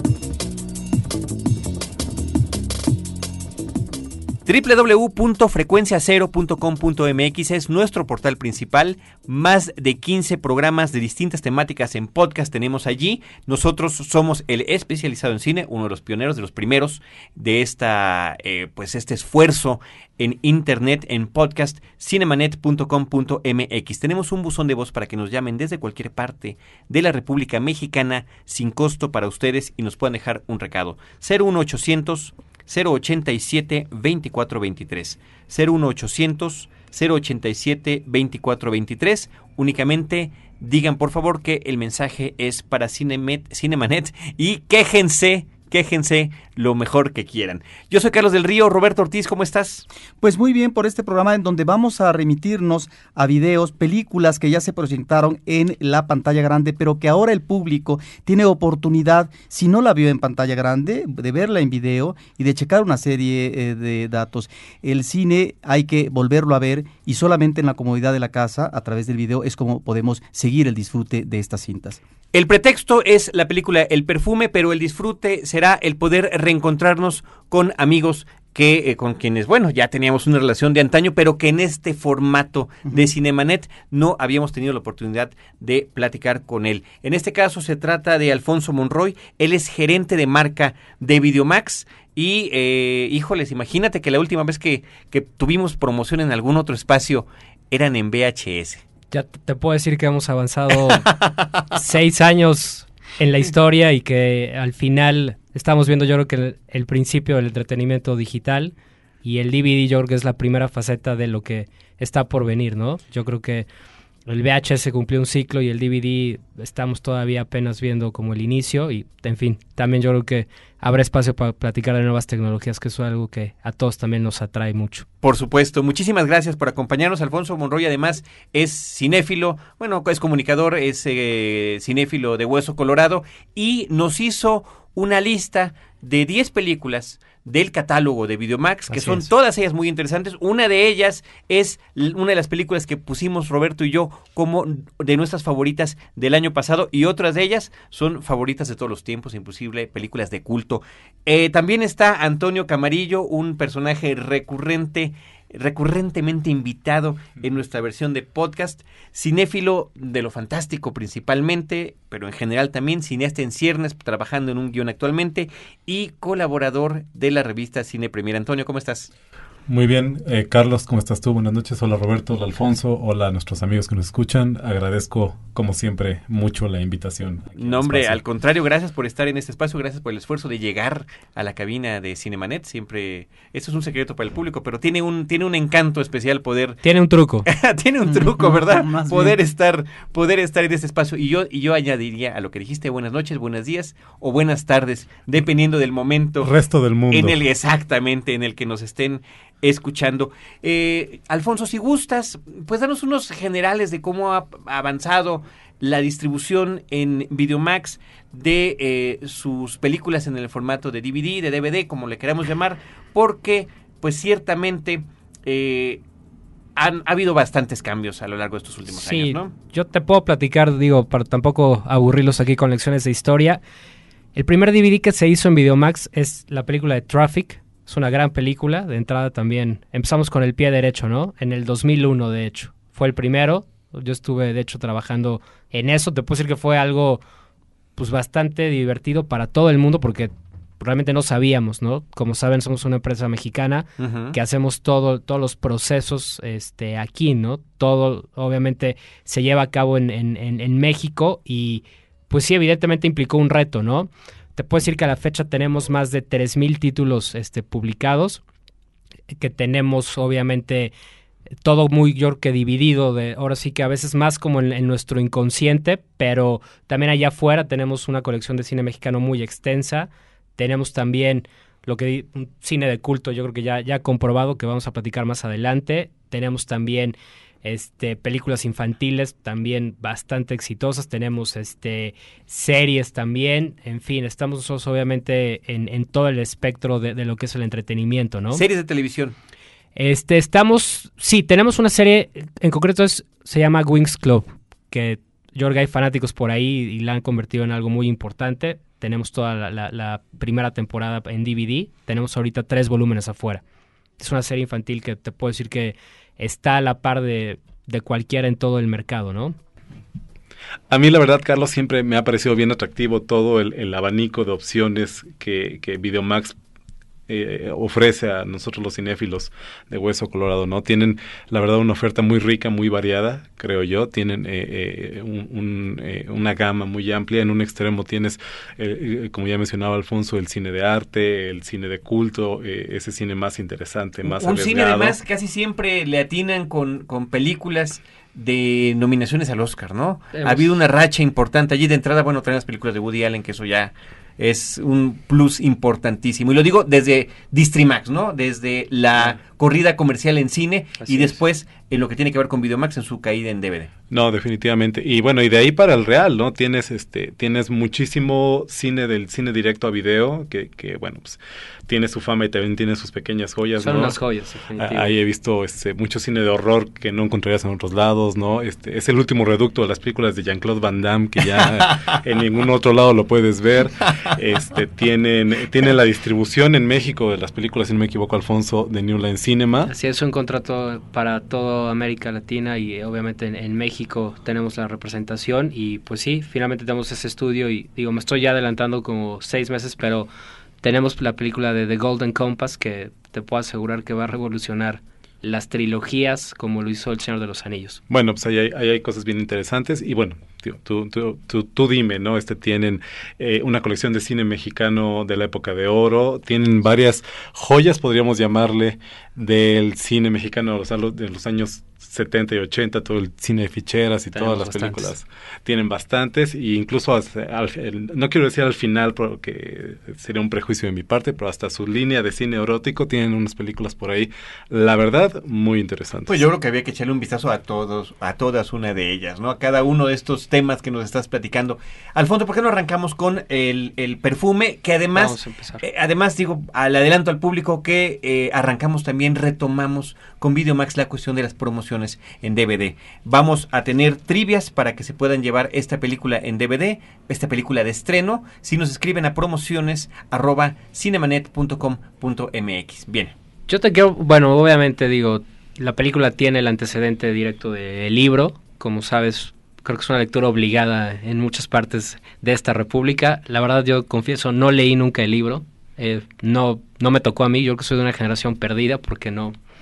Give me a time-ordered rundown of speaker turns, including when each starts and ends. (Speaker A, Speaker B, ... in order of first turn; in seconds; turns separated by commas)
Speaker A: 4.5-49.9, Speaker B: 50.2-72.0, Speaker A: 72.3-98.8, Speaker C: 99.1-113.7, Speaker C: 114.3-125.0, Speaker A: 125.2-169.1, Speaker D: 169.7-178.2, Speaker A: 177.6-186.8, Speaker C: 186.8-187.5, Speaker A: 187.4-196.5, Speaker B: 188.1-189.4, Speaker D: 196.4-197.3, Speaker A: 197.1-216.0, Speaker A: 216.8-219.5, Speaker C: 218.9-223.6, Speaker C: 224.3-237.2, Speaker C: 237.9-258.4, Speaker A: 244.0-244.4, Speaker C: 259.4-260.9, Speaker C: 261.6-288.6, Speaker A: 288.5-289.4, Speaker C: 289.9-303.6, Speaker C: 304.2-309.6, Speaker D: 310.9-316.6, Speaker D: 317.3-335.1, Speaker A: 334.2-353.9, Speaker C: 340.3-340.7, Speaker C: 351.0-351.4, Speaker D: 354.1-364.2, Speaker C: 363.8-365.1, Speaker D: 364.8-379.9, Speaker C: 379.9-390.3, Speaker C: 390.8-398.0, Speaker D: 398.1-426.4, Speaker C: 414.3-415.1, Speaker A: 426.3-453.3, Speaker C: 435.1-435.8, Speaker C: 453.7-469.6